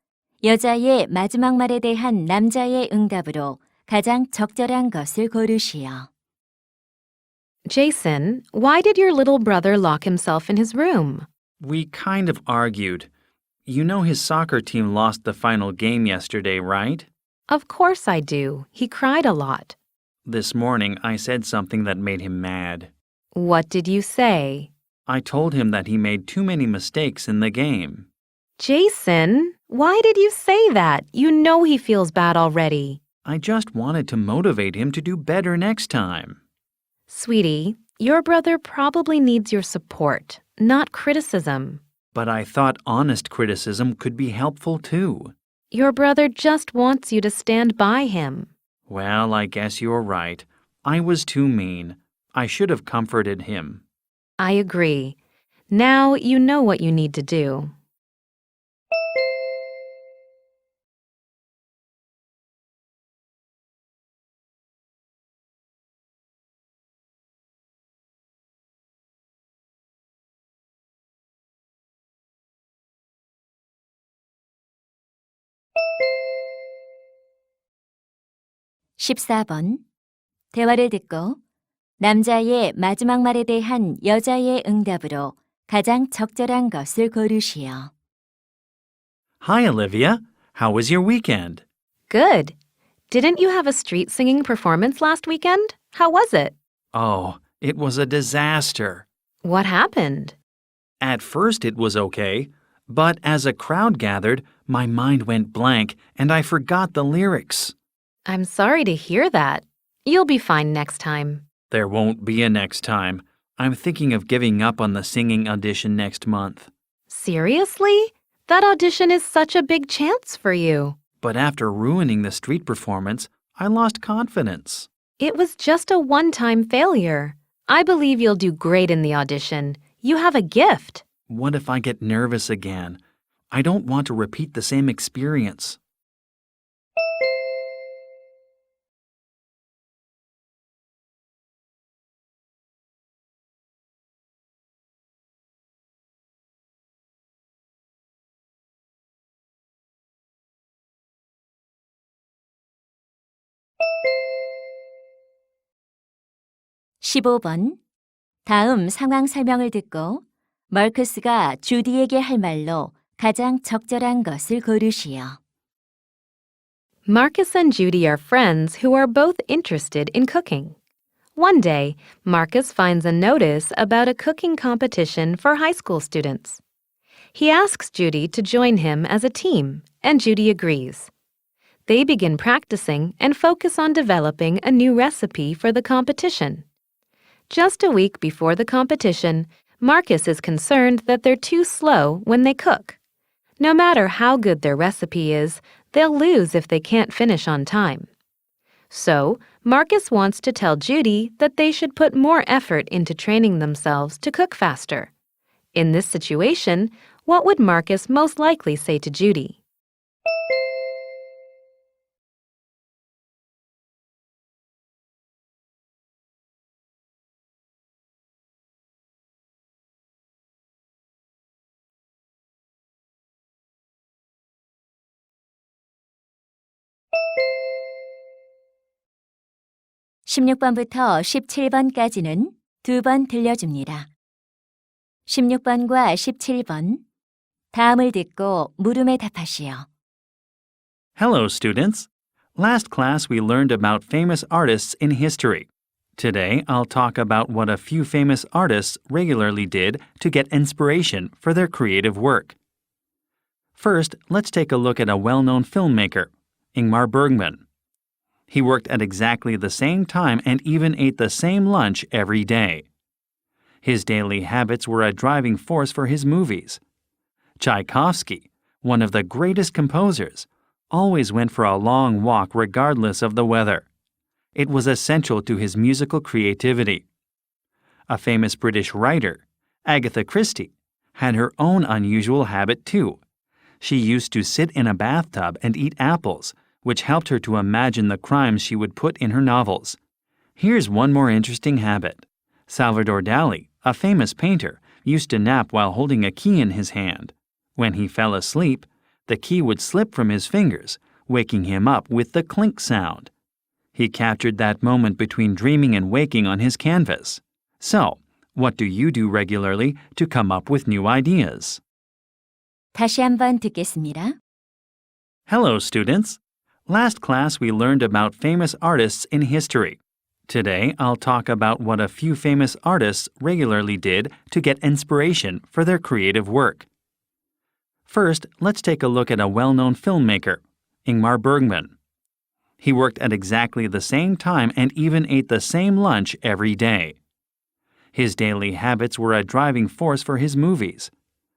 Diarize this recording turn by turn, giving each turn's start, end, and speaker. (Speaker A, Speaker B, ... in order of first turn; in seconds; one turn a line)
Speaker A: 0.4-6.1
Speaker B: 7.7-11.3
Speaker C: 11.6-13.1
Speaker C: 13.7-17.1
Speaker B: 17.5-19.7
Speaker C: 20.2-22.9
Speaker B: 23.3-24.7
Speaker C: 25.1-28.1
Speaker B: 28.6-33.0
Speaker C: 33.2-36.4
Speaker B: 37.1-41.8
Speaker C: 42.1-45.3
Speaker B: 45.7-48.5
Speaker C: 48.9-53.8
Speaker B: 54.4-55.2
Speaker B: 55.7-57.7
Speaker A: 79.0-79.8
Speaker A: 80.5-81.4
Speaker A: 82.0-87.9
Speaker C: 89.4-91.6
Speaker B: 92.1-92.5
Speaker B: 93.1-96.5
Speaker C: 96.9-99.0
Speaker B: 99.4-100.4
Speaker C: 101.0-107.7
Speaker B: 108.2-111.4
Speaker C: 111.7-116.7
Speaker B: 117.1-121.0
Speaker C: 121.2-124.9
Speaker B: 125.2-131.0
Speaker C: 131.3-133.0
Speaker C: 133.5-135.8
Speaker A: 157.0-157.8
Speaker A: 158.4-165.4
Speaker B: 167.1-170.8
Speaker B: 171.3-176.6
Speaker B: 177.3-181.1
Speaker B: 181.9-186.6
Speaker B: 187.5-192.9
Speaker B: 193.6-198.1
Speaker B: 198.9-205.1
Speaker B: 205.7-209.6
Speaker A: 230.2-234.1
Speaker A: 235.3-237.0
Speaker A: 237.7-239.9
Speaker C: 241.2-252.5
Speaker C: 253.8-257.6
Speaker C: 258.5-262.9
Speaker C: 263.8-266.8
Speaker C: 267.6-273.9
Speaker C: 274.5-277.0
Speaker C: 278.1-283.2
Speaker C: 283.8-290.0
Speaker C: 290.6-303.3
Speaker C: 303.9-311.8
Speaker A: 312.9-314.4
Speaker C: 315.5-326.9
Speaker C: 328.1-331.9
Speaker C: 332.8-337.2
Speaker C: 338.1-341.1